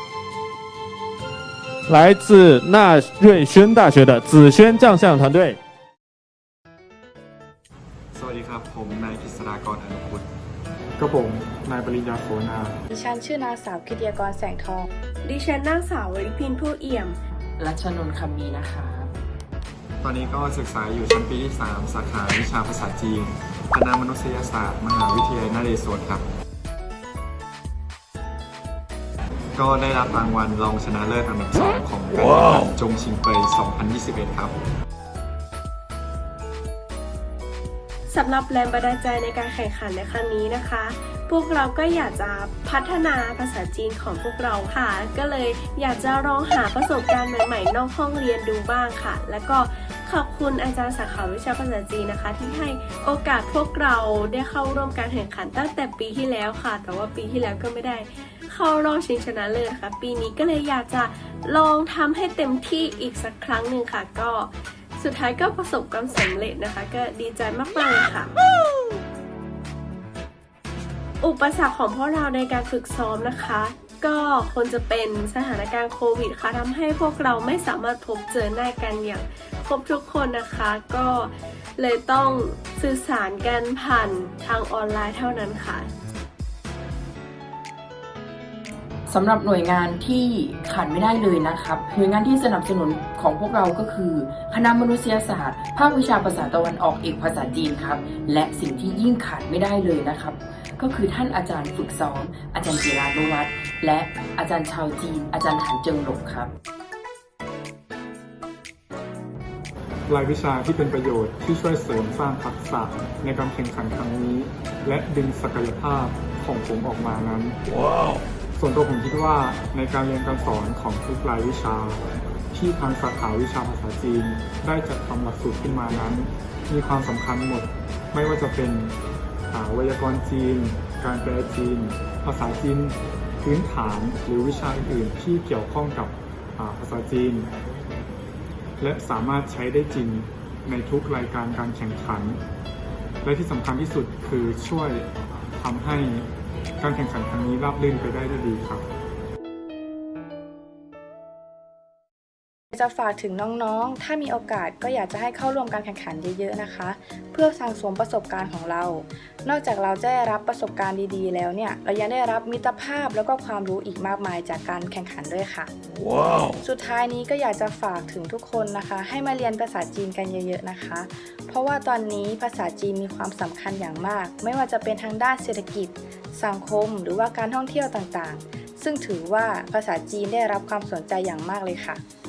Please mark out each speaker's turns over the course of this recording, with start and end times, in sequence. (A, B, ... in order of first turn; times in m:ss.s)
0:01.9-0:05.6 A
0:08.1-0:10.2 B
0:11.0-0:12.8 C
0:12.9-0:14.9 D
0:15.2-0:17.2 E
0:17.6-0:19.1 F
0:20.0-0:26.2 B
0:29.5-0:34.6 B
0:38.1-1:08.3 E
1:11.2-1:25.9 E
1:29.1-1:46.5 F
1:50.1-1:57.6 C
1:58.6-2:09.0 C
2:09.5-2:17.5 C
2:18.8-2:22.4 C
2:23.2-2:26.3 C
2:26.8-2:28.8 C
2:32.7-2:45.7 D
2:46.6-3:02.0 D